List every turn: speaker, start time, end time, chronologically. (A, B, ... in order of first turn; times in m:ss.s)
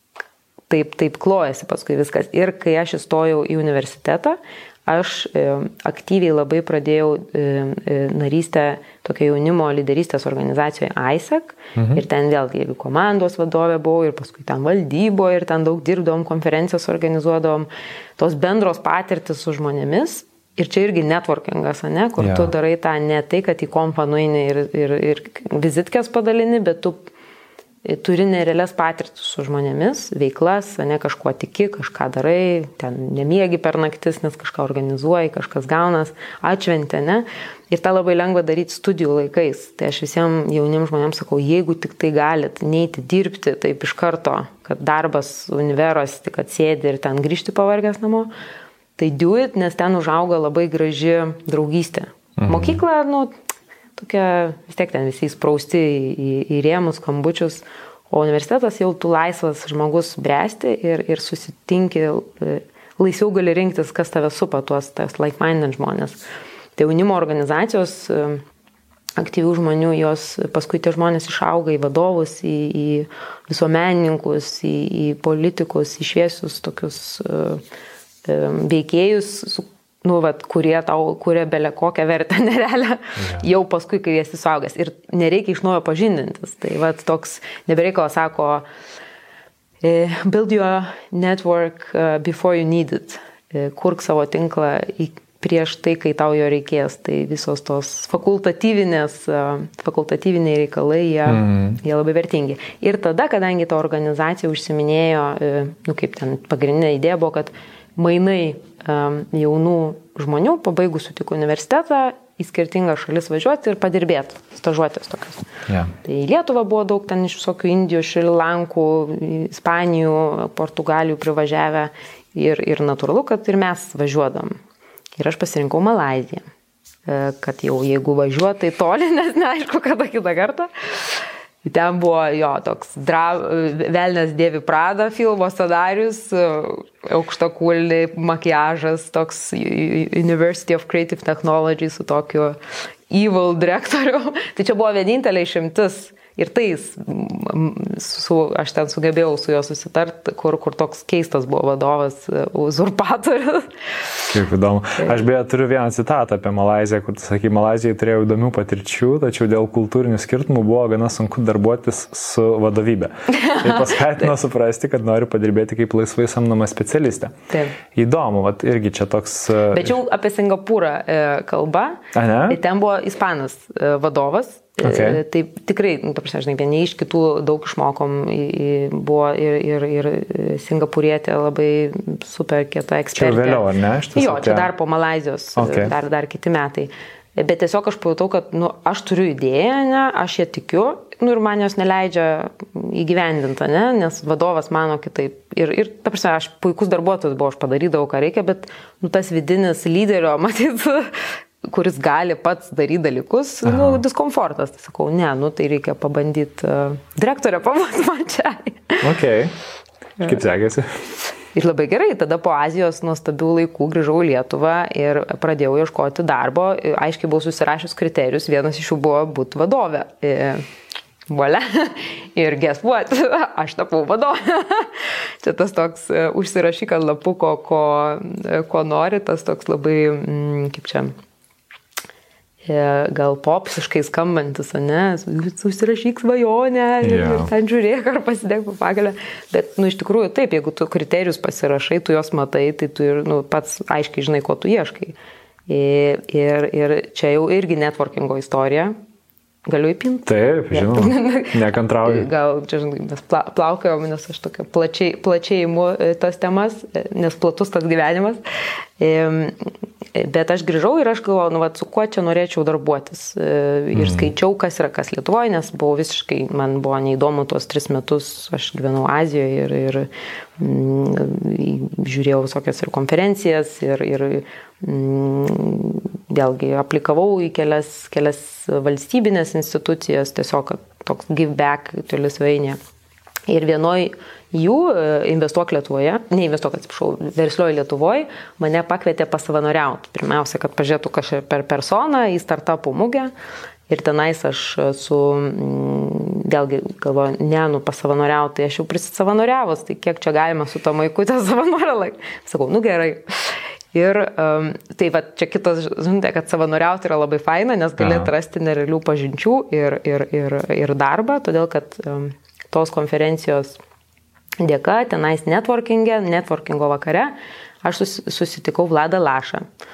0:00.7-0:27.1 A
0:11.8-0:12.0 B
0:22.2-0:22.5 B
0:27.8-0:48.3 A
0:49.0-0:53.3 A
0:52.4-0:52.8 B
0:54.0-1:06.2 A
1:06.8-1:08.4 A
1:09.2-1:17.6 A
1:18.2-1:28.6 A
1:23.2-1:23.4 B
1:29.8-1:55.5 A
1:41.3-1:41.8 B
1:55.7-1:56.0 B
1:56.0-2:04.6 A
2:05.2-2:06.4 A
2:07.1-2:22.6 A
2:23.1-2:34.2 A
2:34.3-2:50.0 B
2:43.3-2:44.3 A
2:47.5-2:47.8 A
2:49.7-3:29.1 A
2:52.1-2:52.6 B
2:54.8-2:55.2 B
3:03.2-3:04.7 B
3:05.6-3:05.9 B
3:23.7-3:24.0 B
3:29.0-3:29.6 B
3:30.2-3:31.1 B
3:31.5-3:40.6 A
3:41.3-3:51.1 A
3:52.6-4:05.2 A
3:57.0-3:57.5 B
4:05.7-4:09.0 A
4:09.7-4:18.4 A
4:10.3-4:12.3 B
4:19.0-4:42.8 A
4:23.9-4:24.3 B
4:43.5-4:53.3 A
4:53.9-5:13.8 A
5:08.0-5:08.3 B
5:14.6-5:19.7 A